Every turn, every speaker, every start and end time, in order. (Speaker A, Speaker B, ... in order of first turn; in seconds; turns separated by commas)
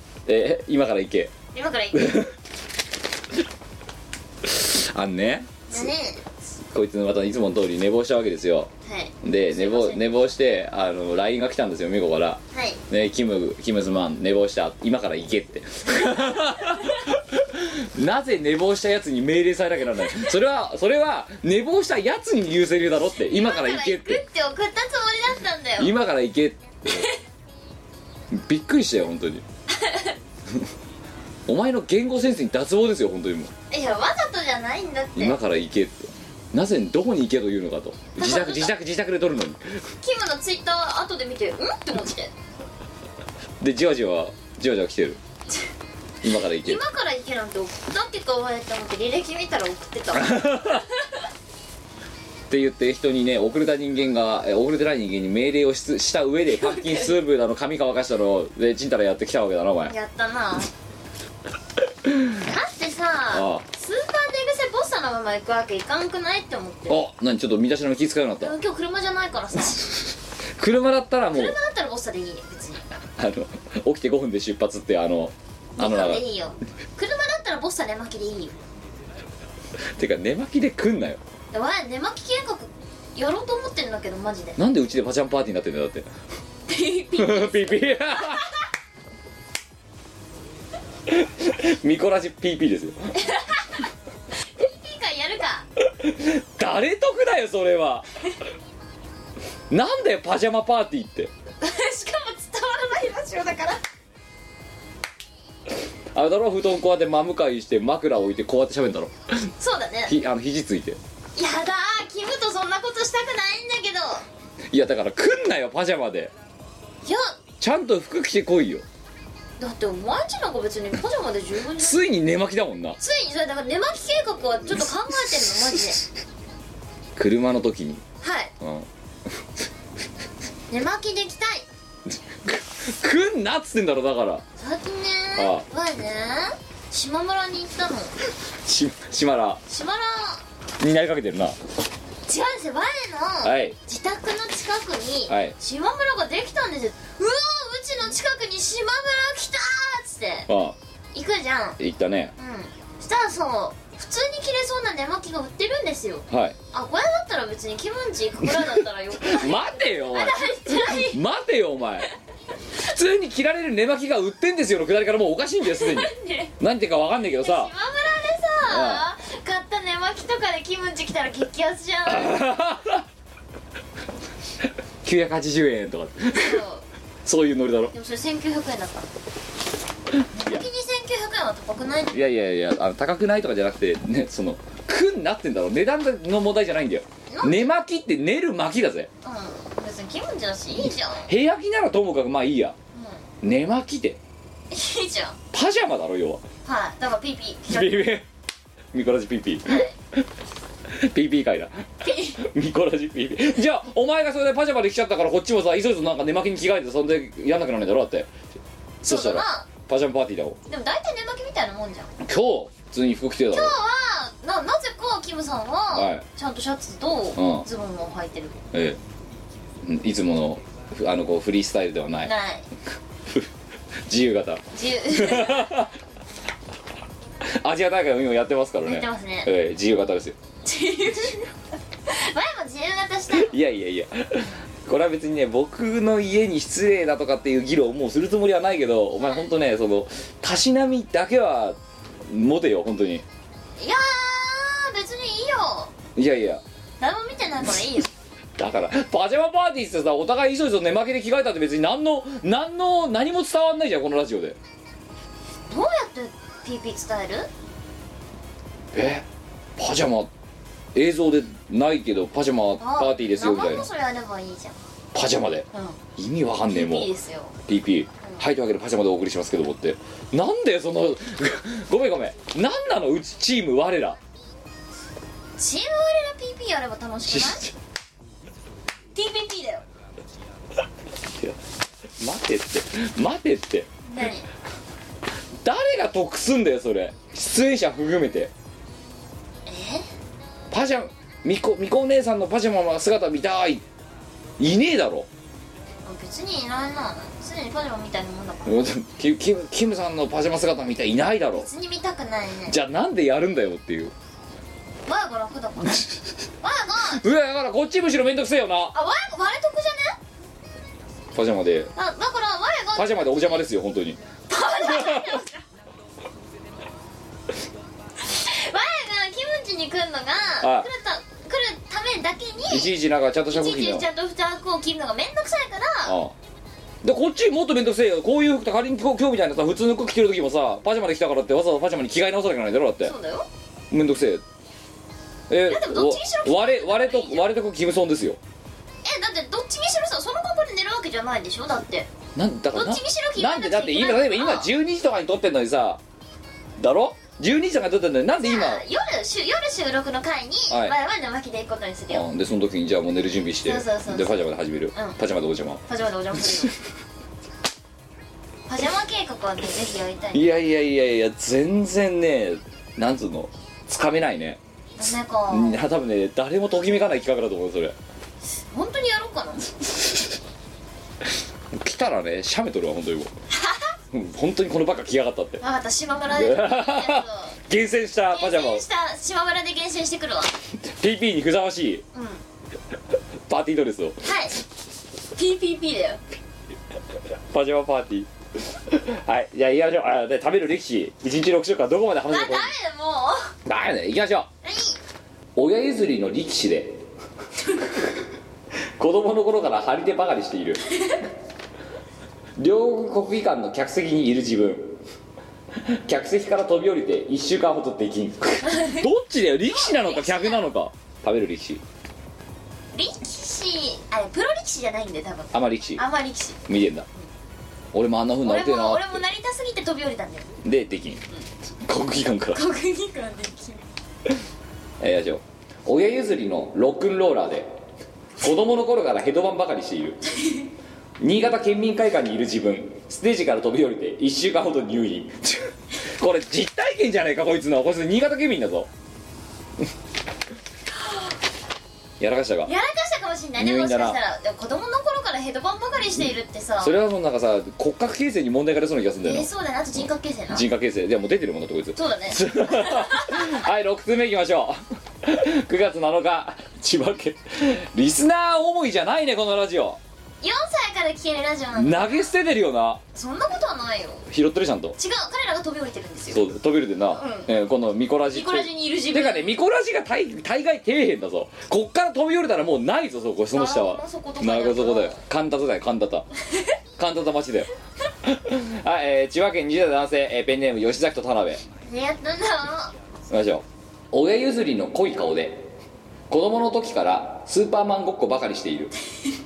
Speaker A: 0.3-1.3, Speaker B: 1.5-2.2, Speaker A: 1.9-2.3, Speaker A: 4.4-5.9, Speaker B: 5.7-6.2, Speaker A: 6.7-8.7, Speaker B: 8.8-10.1, Speaker A: 9.2-24.2, Speaker B: 12.5-12.8, Speaker B: 20.0-20.3, Speaker B: 23.1-25.9, Speaker A: 25.8-27.1, Speaker B: 26.9-27.2, Speaker A: 28.3-29.4, Speaker B: 29.7-30.2, Speaker A: 31.5-33.5, Speaker B: 33.7-35.4, Speaker A: 35.1-39.8, Speaker B: 38.1-38.7, Speaker B: 40.0-42.3, Speaker A: 43.6-45.2, Speaker A: 46.2-46.8, Speaker B: 46.5-51.1, Speaker A: 50.1-50.9, Speaker A: 52.5-59.9, Speaker B: 56.6-57.1, Speaker B: 59.9-60.7, Speaker A: 62.1-62.3, Speaker B: 62.4-67.0, Speaker A: 63.3-63.6, Speaker A: 66.9-68.6, Speaker B: 68.4-69.9, Speaker A: 70.6-71.6, Speaker B: 71.3-72.8, Speaker A: 73.2-76.2, Speaker B: 75.8-78.6, Speaker A: 80.0-81.2, Speaker B: 81.5-84.6, Speaker A: 84.6-86.1, Speaker B: 86.7-88.5, Speaker A: 87.2-88.5, Speaker A: 91.1-93.1, Speaker B: 93.2-93.8, Speaker B: 94.4-95.7, Speaker A: 96.0-98.1, Speaker A: 99.7-101.3, Speaker B: 101.6-103.8, Speaker A: 106.1-109.5, Speaker B: 109.6-110.2, Speaker A: 110.1-111.0, Speaker B: 111.3-114.2, Speaker A: 114.7-116.3, Speaker B: 117.0-117.3, Speaker A: 117.6-118.8, Speaker B: 119.6-122.0, Speaker A: 121.8-123.0, Speaker B: 123.0-126.0, Speaker A: 127.2-128.0, Speaker B: 128.2-128.5, Speaker A: 128.6-128.9, Speaker B: 130.7-131.7, Speaker A: 132.4-134.4, Speaker B: 134.6-138.2, Speaker A: 135.3-135.7, Speaker A: 138.7-139.6, Speaker B: 139.7-140.4, Speaker A: 140.8-141.6, Speaker B: 142.2-150.5, Speaker A: 143.4-143.8, Speaker A: 145.3-145.5, Speaker A: 150.5-150.8, Speaker B: 151.1-151.8, Speaker A: 151.8-152.3, Speaker B: 152.4-161.2, Speaker A: 156.3-156.6, Speaker A: 159.2-162.1, Speaker A: 162.8-167.7, Speaker B: 165.6-166.5, Speaker B: 167.4-172.4, Speaker A: 168.7-169.1, Speaker A: 172.1-173.0, Speaker A: 175.0-176.6, Speaker B: 176.3-176.8, Speaker A: 177.2-177.9, Speaker B: 177.9-179.1, Speaker B: 180.3-182.2, Speaker A: 180.4-180.7, Speaker A: 182.1-189.1, Speaker B: 187.3-187.7, Speaker B: 189.2-191.3, Speaker A: 191.3-192.8, Speaker B: 192.9-193.2, Speaker A: 193.4-194.2, Speaker B: 194.7-195.4, Speaker A: 195.5-196.4, Speaker B: 196.7-198.2, Speaker A: 197.7-198.2, Speaker A: 198.9-199.8, Speaker B: 199.7-199.9, Speaker A: 200.9-208.3, Speaker B: 202.0-202.4, Speaker A: 209.0-210.6, Speaker B: 209.0-209.7, Speaker B: 210.7-212.1, Speaker A: 212.2-213.7, Speaker B: 213.5-218.6, Speaker A: 215.9-216.2, Speaker A: 217.3-217.7, Speaker A: 218.7-219.0, Speaker A: 219.8-222.3, Speaker B: 222.2-222.7, Speaker A: 224.1-225.9, Speaker B: 224.7-225.8, Speaker A: 227.6-230.3, Speaker B: 228.8-229.5, Speaker B: 230.6-231.5, Speaker B: 232.0-233.5, Speaker A: 233.3-243.2, Speaker B: 243.8-245.9, Speaker A: 246.2-246.6, Speaker B: 247.0-248.1, Speaker A: 248.6-254.6, Speaker B: 255.7-257.5, Speaker A: 258.9-259.2, Speaker A: 259.8-260.3, Speaker A: 260.9-263.9, Speaker B: 262.8-264.8, Speaker A: 265.1-267.1, Speaker B: 265.7-266.0, Speaker B: 266.7-267.6, Speaker A: 267.7-274.2, Speaker B: 275.6-277.7, Speaker A: 277.3-277.7, Speaker B: 279.1-279.9, Speaker A: 282.2-283.9, Speaker B: 284.1-284.5, Speaker A: 285.6-288.5, Speaker B: 289.6-290.1, Speaker A: 290.7-293.8, Speaker A: 294.6-295.3, Speaker B: 296.0-298.8, Speaker A: 298.6-301.7, Speaker B: 301.5-302.8, Speaker A: 302.7-304.1, Speaker B: 305.1-306.1, Speaker A: 305.9-306.2, Speaker B: 306.6-307.2, Speaker A: 307.1-308.9, Speaker B: 308.9-310.2, Speaker A: 311.4-311.9, Speaker B: 312.0-313.7, Speaker A: 312.9-314.2, Speaker B: 314.5-315.6, Speaker A: 314.8-315.4, Speaker B: 318.2-322.9, Speaker A: 320.6-320.9, Speaker A: 322.7-324.1, Speaker B: 323.5-326.2, Speaker A: 326.0-326.3, Speaker A: 327.0-333.1, Speaker B: 333.0-333.5, Speaker A: 333.9-334.4, Speaker A: 335.5-338.4, Speaker B: 335.6-337.5, Speaker B: 339.0-342.1, Speaker A: 342.4-346.0, Speaker B: 342.7-344.7, Speaker A: 346.8-348.8, Speaker B: 348.3-352.3, Speaker A: 350.7-351.0, Speaker A: 352.1-355.8, Speaker B: 353.6-355.2, Speaker B: 355.9-356.8, Speaker B: 358.7-360.5, Speaker A: 360.3-364.6, Speaker B: 365.0-365.8, Speaker A: 365.5-367.9, Speaker B: 368.5-369.7, Speaker A: 371.7-373.3, Speaker B: 373.5-373.9, Speaker A: 374.1-375.6, Speaker B: 375.6-377.6, Speaker A: 376.3-378.9, Speaker B: 378.2-380.6, Speaker A: 380.8-382.0, Speaker B: 382.1-382.4, Speaker A: 383.5-384.3, Speaker B: 384.2-384.6, Speaker B: 385.4-386.2, Speaker A: 387.5-388.3, Speaker A: 388.9-392.7, Speaker B: 392.3-393.5, Speaker A: 393.6-394.5, Speaker B: 394.6-395.0, Speaker A: 395.6-397.0, Speaker A: 399.0-400.8, Speaker A: 402.6-405.0, Speaker A: 405.9-411.8, Speaker B: 408.6-409.1, Speaker B: 409.6-410.7, Speaker B: 412.9-416.6, Speaker A: 415.5-416.1, Speaker A: 416.6-417.1, Speaker A: 417.9-419.2, Speaker B: 418.4-420.5, Speaker A: 420.6-421.2, Speaker A: 421.8-422.6, Speaker B: 422.5-423.9, Speaker A: 425.0-427.7, Speaker A: 428.4-430.2, Speaker B: 430.3-430.6, Speaker A: 431.2-438.9, Speaker B: 440.9-441.2, Speaker A: 442.2-442.7, Speaker B: 442.6-447.0, Speaker A: 443.6-444.2, Speaker A: 446.8-449.5, Speaker B: 449.2-450.6, Speaker A: 450.5-460.0, Speaker B: 451.9-453.6, Speaker B: 460.4-462.3, Speaker A: 461.8-463.0, Speaker B: 463.1-464.2, Speaker A: 464.3-465.0, Speaker B: 465.0-466.5, Speaker A: 466.3-476.3, Speaker B: 467.1-467.5, Speaker B: 468.3-469.6, Speaker B: 473.5-475.2, Speaker A: 477.0-477.7, Speaker A: 478.2-481.6, Speaker B: 481.8-482.9, Speaker A: 483.3-485.7, Speaker A: 486.3-488.9